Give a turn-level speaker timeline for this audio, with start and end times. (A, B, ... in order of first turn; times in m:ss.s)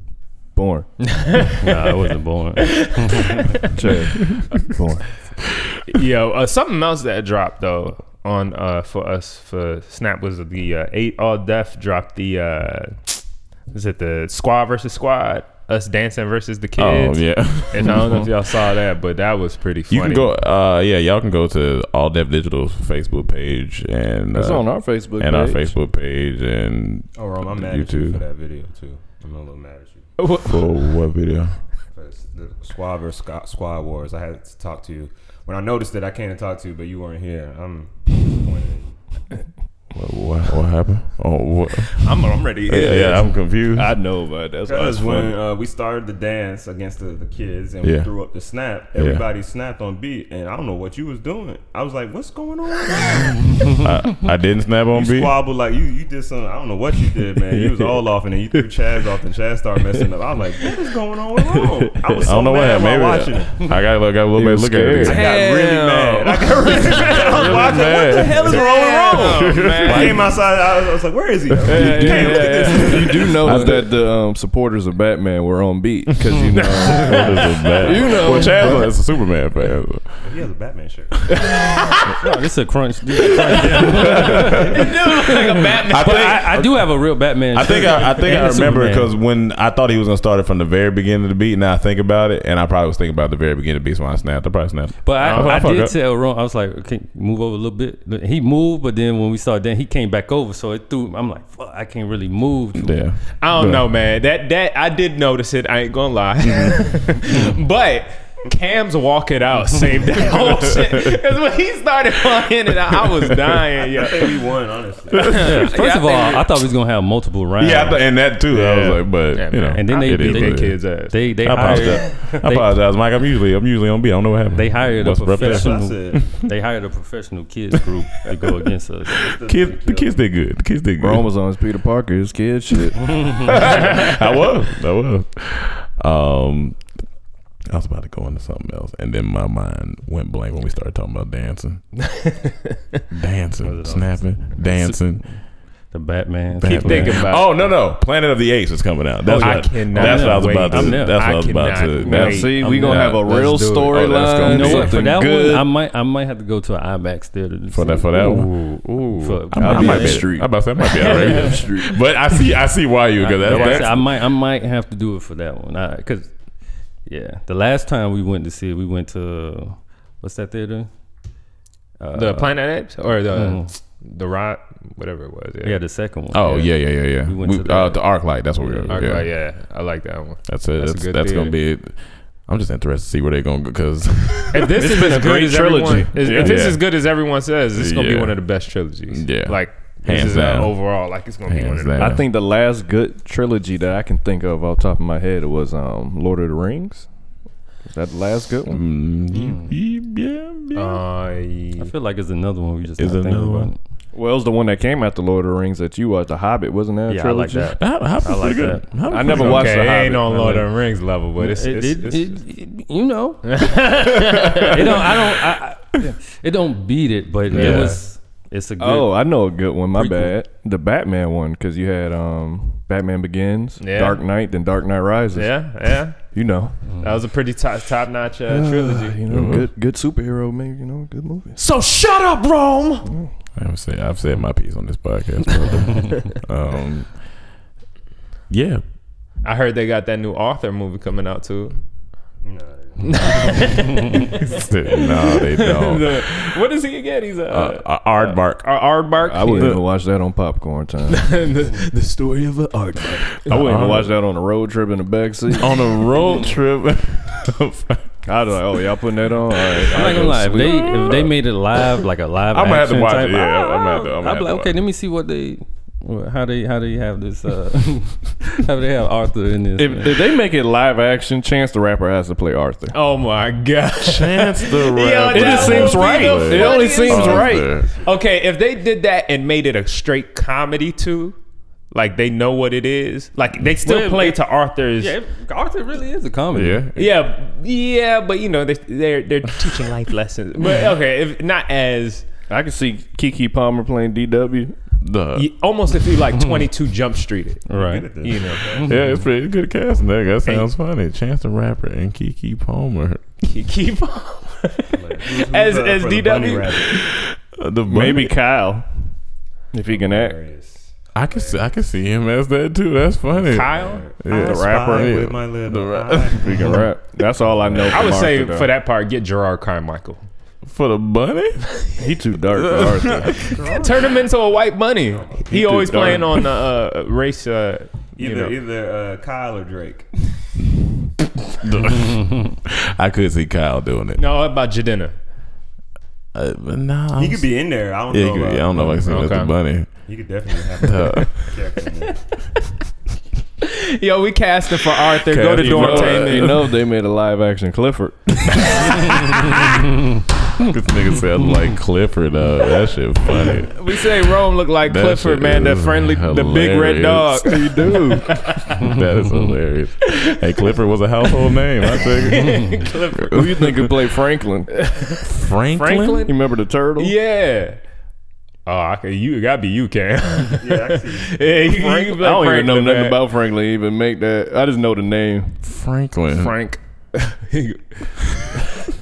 0:00.5-0:00.9 A
0:01.2-0:01.6 B
0:01.6-0:03.7 C
0:02.6-0:03.7 B
0:03.7-0:05.0 A
0:05.9-0:20.3 B
0:16.8-0:18.2 D
0:17.8-0:18.3 A
0:19.9-0:28.2 D
0:24.3-0:25.7 A
0:27.2-0:30.1 E
0:30.2-0:30.7 B
0:30.3-0:31.6 D
0:31.9-0:38.9 E
0:39.9-0:44.0 D
0:41.9-0:43.4 B
0:42.7-0:45.4 A
0:44.6-0:53.8 E
0:47.8-0:48.1 D
0:49.0-0:49.2 D
0:53.8-0:55.4 D
0:54.9-1:03.7 E
1:01.5-1:02.2 A
1:02.2-1:05.3 D
1:04.3-1:05.3 A
1:05.0-1:13.6 E
1:05.1-1:07.8 B
1:07.0-1:10.2 D
1:08.3-1:10.2 A
1:08.5-1:09.6 B
1:11.5-1:13.9 D
1:11.6-1:18.9 A
1:13.4-1:13.7 C
1:16.6-1:17.2 B
1:16.9-1:20.0 D
1:20.2-1:21.4 E
1:21.9-1:24.9 C
1:23.8-1:24.8 D
1:24.1-1:26.6 B
1:25.4-1:29.1 C
1:25.9-1:36.0 D
1:35.0-1:43.0 C
1:35.2-1:35.6 B
1:42.8-1:43.9 D
1:43.4-1:54.4 B
1:53.9-1:55.4 E
1:55.1-1:56.5 B
1:55.1-1:55.5 D
1:55.3-1:58.0 C
1:57.6-2:06.4 D
1:59.3-2:01.9 B
1:59.7-2:02.8 C
2:04.5-2:09.3 C
2:05.3-2:06.4 E
2:09.1-2:10.2 E
2:09.4-2:11.3 D
2:11.0-2:13.5 A
2:13.1-2:13.5 C
2:13.4-2:16.8 D
2:17.7-2:21.8 D
2:22.0-2:23.0 B
2:23.1-2:25.3 D
2:23.6-2:27.4 C
2:26.6-2:35.1 D
2:26.6-2:27.7 B
2:29.3-2:32.6 B
2:29.4-2:31.4 C
2:32.0-2:35.7 A
2:32.5-2:41.4 C
2:37.7-2:44.1 D
2:39.5-2:42.0 A
2:41.0-2:41.5 B
2:43.2-2:46.3 C
2:43.4-2:43.9 B
2:47.0-2:50.9 C
2:52.0-2:52.6 C
2:52.1-2:55.8 B
2:53.3-2:53.7 C
2:55.6-2:59.3 C
2:56.3-2:59.3 D
2:58.9-3:01.5 B
3:00.5-3:04.7 D
3:04.5-3:12.1 B
3:04.8-3:06.6 A
3:06.2-3:06.9 D
3:07.7-3:08.4 D
3:09.1-3:12.2 D
3:12.0-3:17.1 A
3:17.8-3:18.8 A
3:18.7-3:21.0 D
3:19.4-3:19.7 C
3:20.7-3:21.9 B
3:21.8-3:23.8 C
3:23.0-3:23.7 D
3:24.1-3:27.7 A
3:27.1-3:29.5 C
3:27.8-3:29.8 D
3:29.1-3:30.3 A
3:29.3-3:32.4 B
3:30.2-3:30.7 C
3:31.4-3:39.1 C
3:33.4-3:35.1 B
3:37.5-3:38.0 B
3:37.5-3:38.0 D
3:38.8-3:45.6 A
3:40.0-3:40.3 C
3:43.8-3:44.2 B
3:45.3-3:46.2 B
3:46.2-3:46.7 A
3:47.0-3:49.2 B
3:48.5-3:51.6 A
3:49.3-3:49.7 D
3:51.6-3:53.1 B
3:53.6-3:57.2 D
3:58.5-3:58.8 D
3:59.4-4:01.8 B
4:02.4-4:03.7 E
4:03.0-4:09.8 B
4:04.3-4:06.6 D
4:07.5-4:08.8 D
4:09.2-4:11.3 A
4:11.1-4:13.5 B
4:13.4-4:15.8 A
4:13.5-4:14.1 D
4:15.6-4:18.0 D
4:18.2-4:21.0 A
4:19.7-4:21.3 D
4:19.9-4:30.2 C
4:22.5-4:24.7 D
4:29.8-4:33.0 A
4:32.9-4:41.4 B
4:34.0-4:37.9 D
4:35.3-4:37.7 A
4:41.9-4:45.2 B
4:43.8-4:44.4 C
4:45.0-4:46.8 C
4:46.5-4:47.1 D
4:47.0-4:52.2 B
4:52.5-4:54.7 A
4:55.0-4:55.5 D
4:55.3-4:57.7 B
4:57.7-4:58.1 C
4:57.7-4:59.0 E
4:58.2-4:58.7 B
4:58.8-4:59.2 C
4:58.8-5:03.2 D
5:03.4-5:07.0 B
5:04.9-5:07.0 E
5:07.0-5:08.3 D
5:07.9-5:08.8 A
5:09.7-5:10.4 A
5:09.9-5:11.6 E
5:11.1-5:16.8 D
5:13.3-5:16.8 E
5:13.4-5:14.1 B
5:16.4-5:18.7 A
5:17.9-5:20.2 B
5:20.6-5:21.7 D
5:22.0-5:23.4 A
5:22.5-5:23.5 D
5:23.4-5:24.2 E
5:23.5-5:28.5 B
5:25.1-5:25.4 E
5:25.5-5:26.3 A
5:28.2-5:30.2 E
5:31.6-5:34.2 D
5:34.2-5:35.1 B
5:36.3-5:40.0 D
5:37.2-5:39.2 E
5:39.0-5:39.5 B
5:40.0-5:42.2 E
5:40.8-5:41.4 D
5:43.6-5:46.6 B
5:45.3-5:46.6 D
5:45.6-5:48.8 A
5:50.6-5:53.8 D
5:53.6-5:58.8 B
5:54.8-5:57.5 D
5:57.4-5:58.4 A
5:58.5-6:03.9 D
6:00.0-6:00.7 B
6:01.4-6:03.7 B
6:03.3-6:04.7 A
6:04.7-6:06.3 B
6:05.2-6:06.3 D
6:06.2-6:07.1 A
6:07.0-6:07.8 B
6:08.6-6:13.2 B
6:10.6-6:11.8 E
6:11.8-6:15.6 A
6:15.6-6:16.5 D
6:16.3-6:18.1 B